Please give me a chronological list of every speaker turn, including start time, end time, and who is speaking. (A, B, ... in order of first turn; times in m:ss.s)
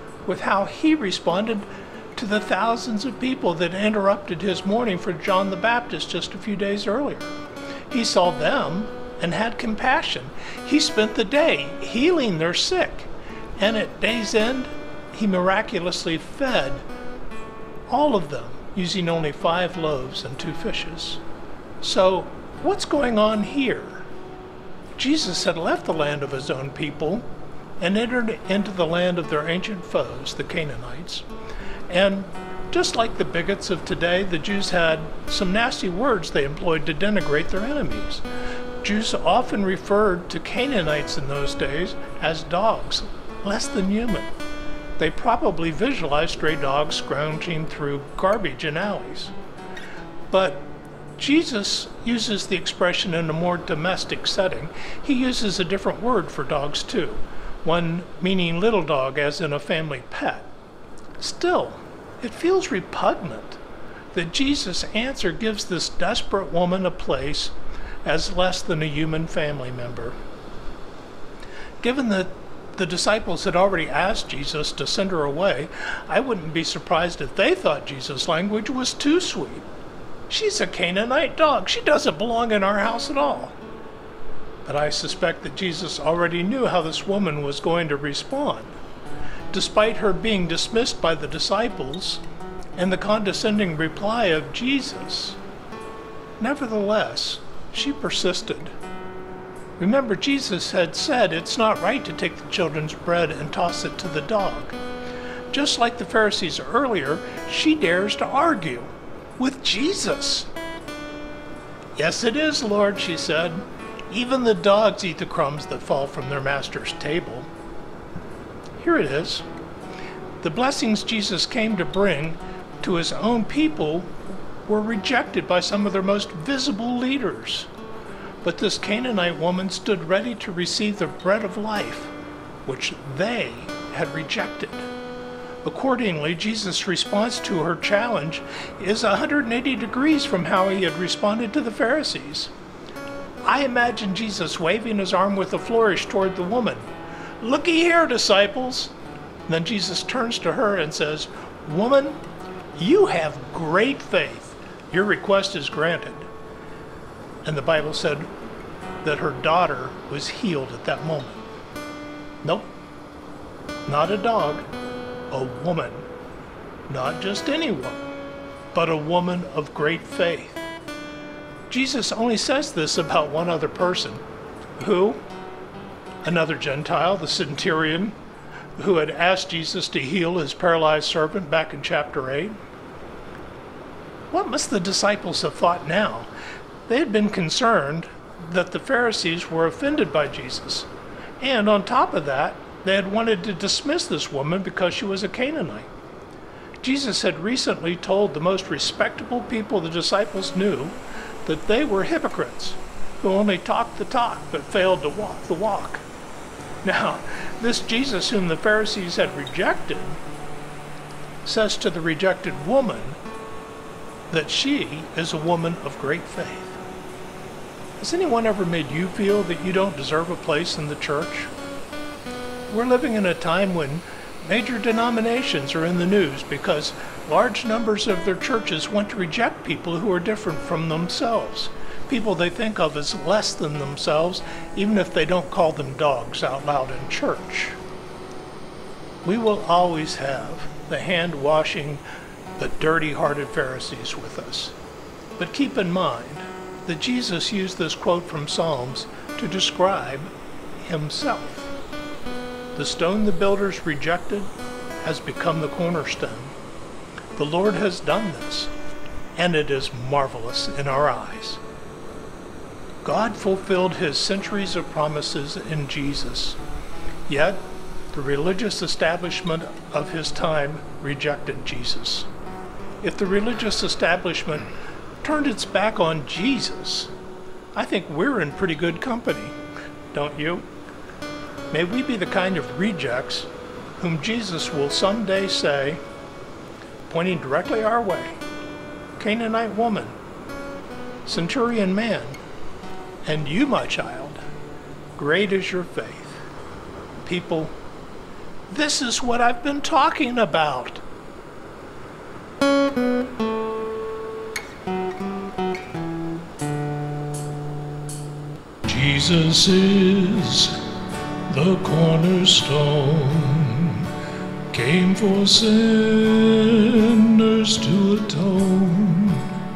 0:00.2-0:07.3 A
0:07.9-0:16.8 A
0:17.9-0:21.2 A
0:21.8-0:24.1 A
0:25.0-0:27.2 A
0:27.8-0:31.2 A
0:31.9-0:38.2 A
0:38.8-0:44.3 A
0:45.0-0:49.3 A
0:50.3-1:00.5 A
1:01.2-1:03.6 A
1:04.1-1:10.1 A
1:11.8-1:19.7 A
1:20.3-1:23.6 A
1:24.6-1:28.8 A
1:29.5-1:32.2 A
1:32.8-1:35.4 A
1:36.4-1:38.7 A
1:39.8-1:44.8 A
1:45.5-1:50.5 A
1:52.0-1:57.5 A
1:58.8-1:59.4 A
2:00.4-2:04.1 A
2:04.6-2:07.7 A
2:08.4-2:12.1 A
2:12.6-2:14.9 A
2:15.6-2:22.5 A
2:23.4-2:26.9 A
2:27.4-2:28.9 A
2:29.5-2:32.2 A
2:32.8-2:36.3 A
2:37.4-2:38.3 A
2:39.0-2:41.5 A
2:42.4-2:42.7 A
2:43.8-2:44.7 A
2:45.3-2:46.1 A
2:46.9-2:48.1 A
2:48.7-2:50.7 A
2:51.7-2:54.2 A
2:54.8-2:55.2 A
2:56.2-2:58.1 A
2:58.8-3:02.6 A
3:04.3-3:06.3 A
3:06.9-3:10.9 A
3:11.4-3:15.9 A
3:16.8-3:26.0 A
3:26.8-3:30.2 A
3:31.4-3:33.2 A
3:34.3-3:36.8 A
3:38.0-3:41.5 A
3:42.7-3:57.8 A
3:59.2-4:02.0 A
4:02.6-4:04.8 A
4:05.4-4:11.7 A
4:12.7-4:14.5 A
4:15.0-4:16.5 A
4:17.4-4:18.7 A
4:19.3-4:21.6 A
4:23.0-4:26.6 A
4:27.3-4:32.3 A
4:33.0-4:34.7 A
4:35.2-4:37.1 A
4:37.7-4:39.6 A
4:40.1-4:40.7 A
4:41.7-4:46.0 A
4:47.1-4:48.4 A
4:49.2-4:50.2 A
4:51.2-4:52.4 A
4:53.2-4:54.4 A
4:55.2-4:56.4 A
4:57.2-4:57.7 A
4:58.7-5:01.0 A
5:08.8-5:10.8 A
5:11.5-5:14.1 A
5:14.7-5:19.5 A